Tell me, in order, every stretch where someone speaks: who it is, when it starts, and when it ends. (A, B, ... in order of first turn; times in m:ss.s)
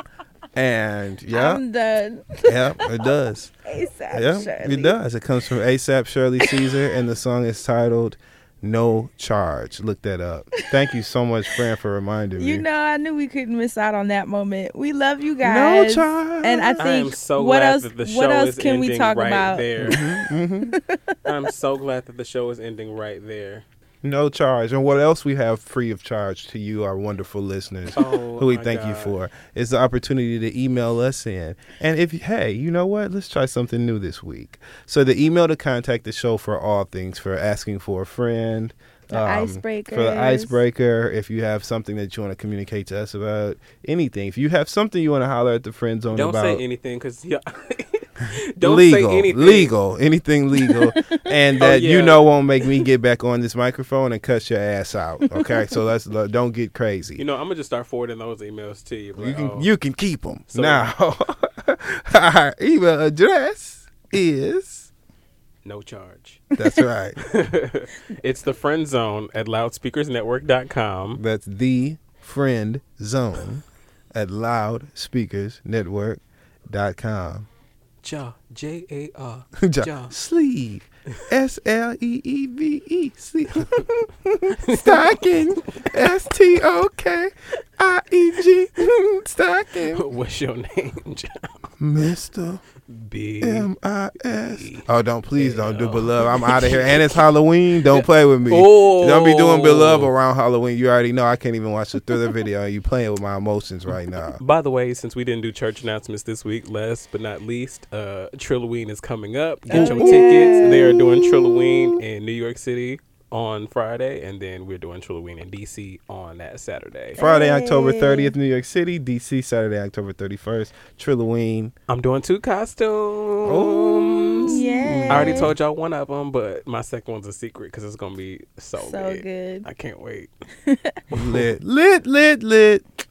0:00.5-0:01.6 A
0:01.3-0:03.1 B
0:02.4-0:03.5 A
0:03.6-0:05.0 B
0:04.1-0:12.6 A
0:12.4-0:20.0 B
0:15.4-0:16.8 A
0:16.8-0:20.0 C
0:19.8-0:20.7 A
0:20.7-0:21.2 B
0:21.2-0:23.6 C
0:24.0-0:46.6 A
0:27.9-0:29.2 C
0:39.1-0:40.6 B
0:46.1-0:49.7 C
0:48.6-0:57.2 A
0:50.6-0:51.2 B
0:51.6-0:52.3 C
0:57.2-0:59.7 C
0:59.2-1:04.9 A
1:00.5-1:00.9 C
1:05.6-1:06.4 C
1:06.6-1:07.2 A
1:07.2-1:11.2 C
1:11.2-1:17.5 A
1:18.0-1:20.1 C
1:19.6-1:30.0 A
1:24.6-1:26.0 C
1:29.9-1:31.7 C
1:31.8-1:32.6 A
1:32.8-1:33.7 C
1:33.4-1:44.4 A
1:34.5-1:37.2 C
1:37.8-1:40.1 C
1:44.4-1:57.2 C
1:49.7-1:51.2 B
1:49.7-1:52.0 A
1:57.2-1:58.3 B
1:57.2-2:01.7 A
2:01.9-2:10.3 C
2:03.4-2:05.5 A
2:04.4-2:05.5 B
2:08.8-2:09.6 B
2:10.6-2:11.0 B
2:11.1-2:12.8 A
2:11.1-2:11.4 C